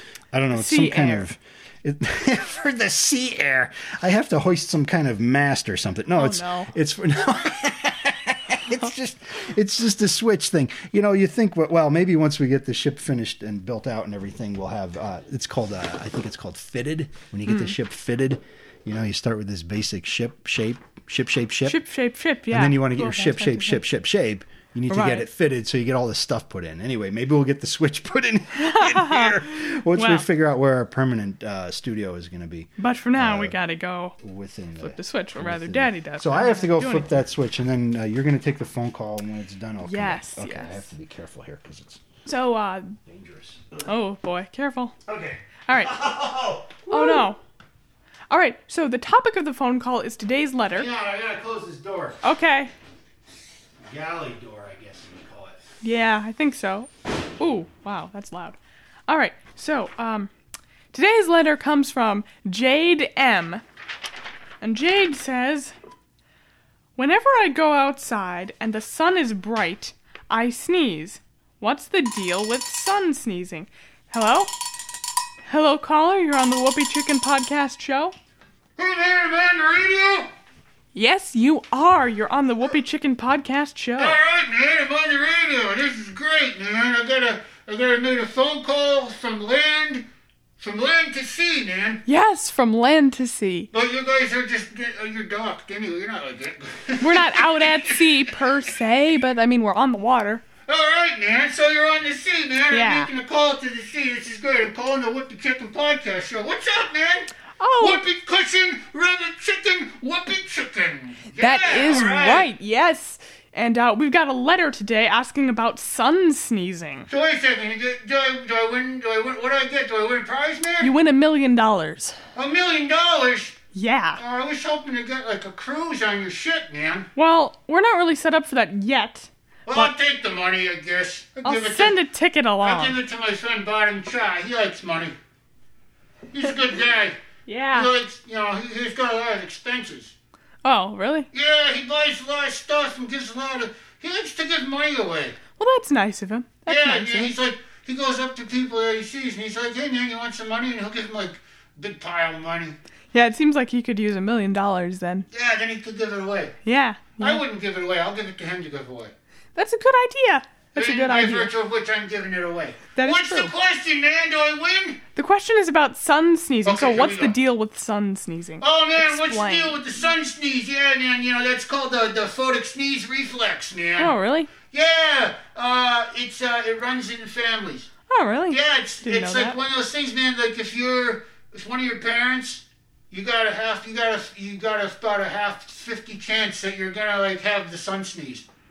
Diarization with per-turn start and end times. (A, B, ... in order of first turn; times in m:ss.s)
0:00.3-0:21.8 A
0:00.5-0:01.3 B
0:06.1-0:06.7 B
0:17.5-0:17.8 B
0:21.6-0:23.8 B
0:22.5-0:33.6 A
0:24.9-0:25.3 B
0:28.5-0:30.3 B
0:32.8-0:34.2 B
0:34.2-0:42.0 A
0:34.8-0:37.1 B
0:39.8-0:40.9 B
0:42.2-0:43.0 B
0:43.0-0:43.8 A
0:43.8-0:45.0 B
0:45.0-0:47.3 A
0:45.7-0:46.0 B
0:46.9-0:47.4 B
0:48.3-0:50.9 B
0:50.7-0:52.2 A
0:52.2-0:52.7 B
0:53.9-0:55.6 A
0:55.8-0:58.6 B
0:59.1-1:00.3 B
1:00.9-1:03.6 B
1:04.6-1:05.7 B
1:07.0-1:14.5 B
1:15.5-1:18.1 B
1:18.8-1:20.3 C
1:20.9-1:24.2 B
1:24.0-1:30.0 C
1:30.6-1:32.0 C
1:32.0-1:33.7 B
1:33.7-1:38.3 C
1:37.0-1:40.4 B
1:40.7-1:52.5 C
1:42.7-1:43.1 B
1:47.6-1:48.0 B
1:51.4-1:57.1 B
1:57.1-2:00.9 C
2:00.8-2:02.2 B
2:02.3-2:03.6 C
2:03.7-2:04.2 B
2:04.2-2:07.1 C
2:07.2-2:09.9 B
2:09.7-2:12.0 C
2:11.4-2:13.0 B
2:12.6-2:15.1 C
2:16.3-2:17.2 C
2:17.4-2:17.9 B
2:17.7-2:20.1 C
2:20.6-2:21.3 B
2:21.3-2:25.4 C
2:25.6-2:27.3 B
2:26.7-2:32.8 C
2:33.1-2:35.3 B
2:35.3-2:36.5 C
2:36.6-2:37.4 B
2:37.2-2:39.1 C
2:39.5-2:41.5 B
2:40.8-2:45.0 C
2:42.9-2:43.5 B
2:45.1-2:50.0 B
2:46.6-2:47.4 C
2:48.6-2:54.1 C
2:54.0-2:54.5 B
2:54.7-2:57.9 C
2:58.1-2:59.6 B
2:58.5-3:08.5 C